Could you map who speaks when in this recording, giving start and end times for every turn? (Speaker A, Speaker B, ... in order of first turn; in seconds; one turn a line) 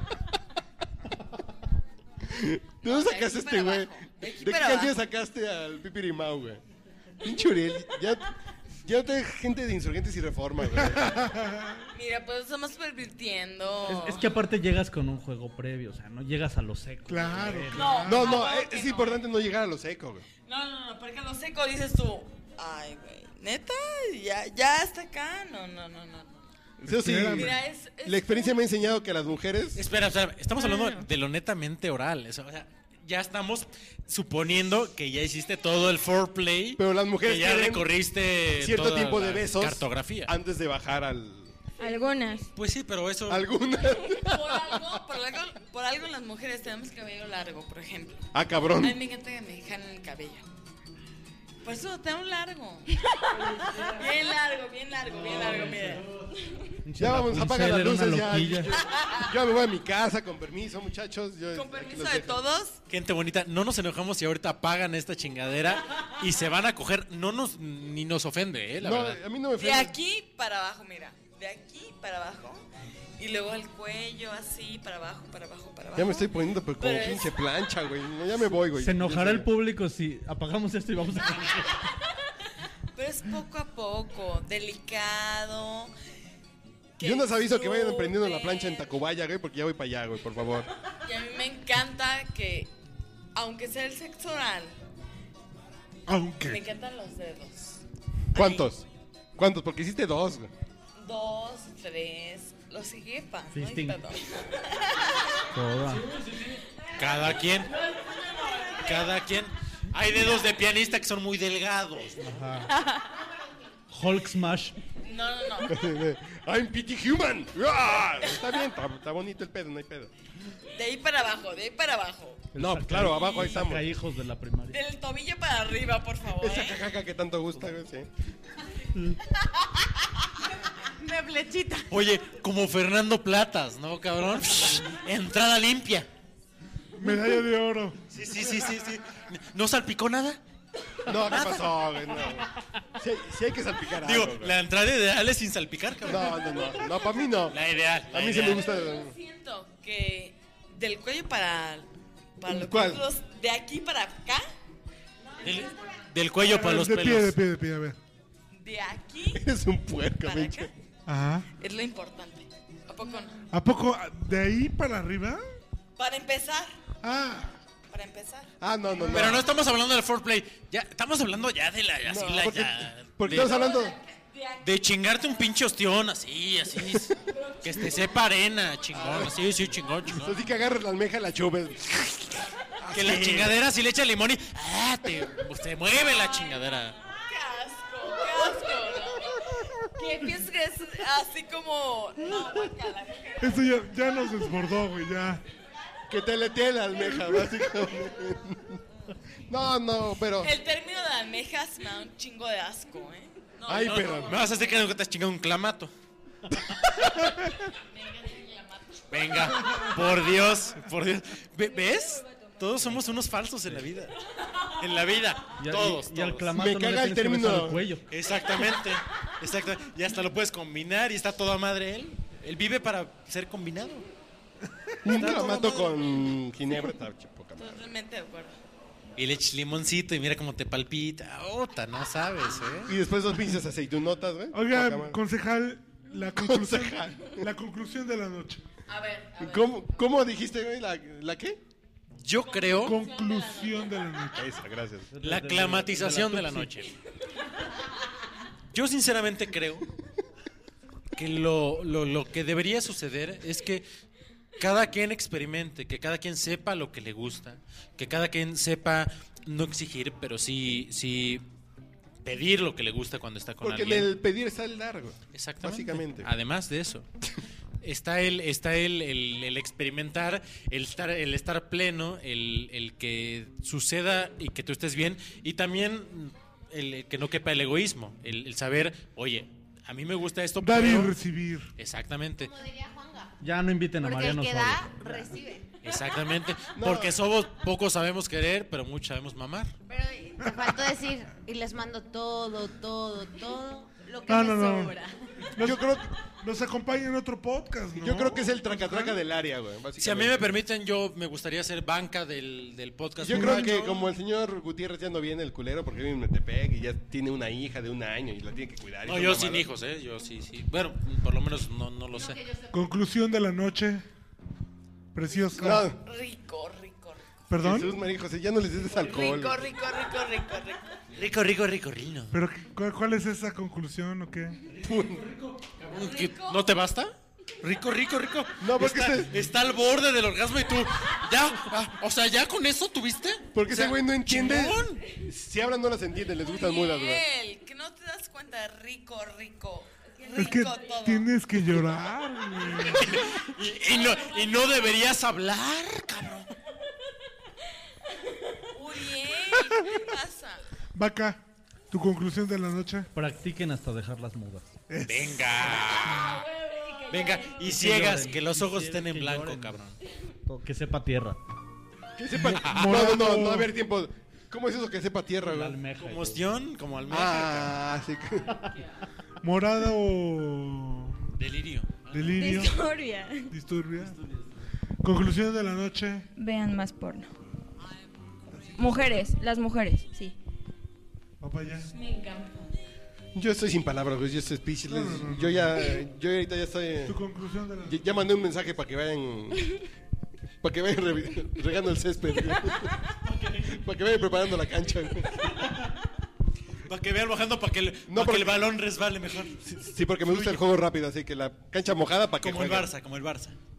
Speaker A: 2.3-6.6
Speaker B: 2.8-5.0
Speaker A: 7.2-8.3
Speaker A: 8.8-11.3
Speaker C: 10.8-11.9
Speaker B: 11.9-14.3
Speaker D: 13.9-18.1
Speaker C: 17.1-18.5
Speaker B: 17.7-19.2
Speaker A: 18.1-20.3
Speaker B: 20.4-26.5
Speaker A: 26.8-29.8
Speaker C: 26.9-27.6
Speaker B: 27.3-28.6
Speaker E: 29.8-40.3
Speaker F: 30.6-31.1
Speaker A: 36.8-37.9
Speaker A: 38.6-41.5
Speaker F: 41.8-42.5
Speaker E: 42.5-43.5
Speaker A: 43.3-44.9
Speaker B: 44.1-48.2
Speaker A: 48.3-49.0
Speaker B: 48.8-50.5
Speaker B: 51.6-56.1
Speaker D: 55.2-56.0
Speaker D: 56.8-58.8
Speaker A: 57.0-62.4
Speaker B: 61.5-62.8
Speaker E: 62.9-69.2
Speaker A: 68.8-69.9
Speaker B: 69.6-72.7
Speaker B: 73.2-77.3
Speaker A: 76.0-79.5
Speaker D: 78.7-81.7
Speaker B: 82.9-85.9
Speaker A: 87.0-90.7
Speaker B: 87.0-88.9
Speaker B: 90.9-92.7
Speaker B: 93.3-94.8
Speaker C: 96.1-96.6
Speaker B: 96.4-97.8
Speaker A: 98.3-100.5
Speaker B: 98.3-98.7
Speaker B: 101.0-105.4
Speaker D: 103.5-104.0
Speaker D: 105.5-106.3
Speaker E: 107.0-107.7
Speaker B: 107.7-109.1
Speaker E: 108.8-112.4
Speaker D: 112.2-112.7
Speaker D: 113.9-114.8
Speaker B: 115.0-115.7
Speaker A: 115.6-120.1
Speaker B: 120.8-122.5
Speaker D: 122.5-124.8
Speaker A: 122.6-123.9
Speaker B: 124.7-126.8
Speaker A: 126.4-128.1
Speaker D: 128.9-129.2
Speaker G: 130.8-131.9
Speaker E: 131.9-136.1
Speaker C: 137.0-138.7
Speaker E: 138.1-140.4
Speaker A: 141.1-144.6
Speaker E: 141.2-142.4
Speaker E: 143.9-146.7
Speaker A: 146.1-147.6
Speaker E: 147.5-148.7
Speaker A: 148.1-149.1
Speaker B: 148.4-154.5
Speaker A: 152.5-153.0
Speaker E: 155.4-157.4
Speaker C: 156.4-158.0
Speaker B: 158.5-159.4
Speaker A: 159.3-160.7
Speaker B: 160.2-160.7
Speaker C: 161.1-161.5
Speaker B: 161.6-163.4
Speaker C: 163.5-165.4
Speaker B: 166.0-166.7
Speaker C: 167.0-167.6
Speaker B: 167.9-168.5
Speaker A: 168.6-169.5
Speaker E: 169.0-173.6
Speaker A: 172.1-173.9
Speaker B: 173.3-175.3
Speaker E: 174.6-180.4
Speaker B: 177.3-178.1
Speaker A: 178.9-179.4
Speaker A: 180.1-183.6
Speaker E: 182.9-187.0
Speaker B: 187.1-193.9
Speaker C: 193.4-195.4
Speaker A: 196.1-198.8
Speaker A: 199.5-200.5
Speaker B: 200.4-204.2
Speaker A: 203.7-204.4
Speaker E: 203.7-205.9
Speaker B: 207.6-210.1
Speaker E: 209.1-214.2
Speaker E: 214.7-216.6
Speaker D: 215.6-218.1
Speaker A: 216.5-217.9
Speaker E: 218.1-224.1
Speaker A: 225.0-227.8
Speaker E: 225.1-226.3
Speaker B: 227.6-228.6
Speaker E: 229.2-233.0
Speaker A: 232.9-235.2
Speaker C: 234.5-238.6
Speaker A: 236.4-237.5
Speaker B: 238.9-240.2
Speaker A: 239.4-241.6
Speaker E: 242.2-243.0
Speaker B: 242.4-244.4
Speaker C: 242.8-244.5
Speaker A: 244.4-245.1
Speaker D: 245.1-246.8
Speaker E: 245.2-246.9
Speaker E: 248.7-249.9
Speaker E: 251.1-253.9
Speaker E: 254.6-261.4
Speaker E: 262.2-264.1
Speaker A: 263.6-266.3
Speaker E: 265.3-267.1
Speaker E: 267.8-281.2
Speaker C: 280.6-281.7
Speaker E: 281.8-282.5
Speaker G: 282.4-283.3
Speaker D: 283.4-285.2
Speaker G: 284.0-285.7
Speaker E: 285.8-289.7
Speaker A: 286.8-287.2
Speaker G: 289.9-295.5
Speaker C: 294.3-295.0
Speaker C: 295.6-299.2
Speaker A: 295.6-296.0
Speaker A: 298.0-300.4
Speaker E: 300.0-304.0
Speaker A: 303.2-309.7
Speaker C: 303.3-303.9
Speaker E: 309.0-312.4
Speaker C: 312.7-314.0
Speaker C: 315.1-315.9
Speaker B: 315.4-317.3
Speaker A: 315.6-316.0
Speaker C: 317.5-318.0
Speaker A: 317.6-319.6
Speaker B: 318.8-320.9
Speaker E: 321.1-322.4
Speaker C: 322.3-324.6
Speaker E: 324.7-335.0
Speaker A: 324.8-325.2
Speaker B: 325.9-326.7
Speaker A: 328.6-329.4
Speaker A: 333.6-337.2
Speaker B: 336.5-341.3
Speaker C: 340.4-343.3
Speaker E: 342.8-346.5
Speaker B: 348.7-350.7
Speaker C: 350.9-353.1
Speaker D: 353.1-354.8
Speaker C: 354.9-356.4
Speaker E: 355.0-356.4
Speaker B: 356.1-357.8
Speaker E: 357.1-360.0
Speaker D: 357.6-359.8
Speaker D: 360.5-361.4
Speaker A: 362.2-365.8
Speaker C: 362.3-363.7
Speaker E: 362.4-363.1
Speaker D: 365.4-366.4
Speaker E: 366.0-367.8
Speaker A: 367.1-368.6
Speaker C: 369.4-371.2
Speaker E: 371.4-372.5
Speaker C: 372.1-372.8
Speaker F: 372.4-373.5
Speaker C: 373.5-374.2
Speaker C: 375.0-376.3
Speaker F: 376.4-377.3
Speaker C: 378.6-378.9
Speaker F: 378.8-380.4
Speaker C: 381.4-381.9
Speaker B: 381.9-382.8
Speaker A: 383.4-387.2
Speaker C: 384.9-386.0
Speaker C: 387.1-388.1
Speaker A: 387.9-389.8
Speaker A: 390.6-393.0
Speaker E: 393.2-393.9
Speaker A: 393.7-395.5
Speaker E: 395.4-395.9
Speaker E: 396.9-400.6
Speaker A: 398.1-398.7
Speaker A: 399.7-402.9
Speaker E: 402.4-403.6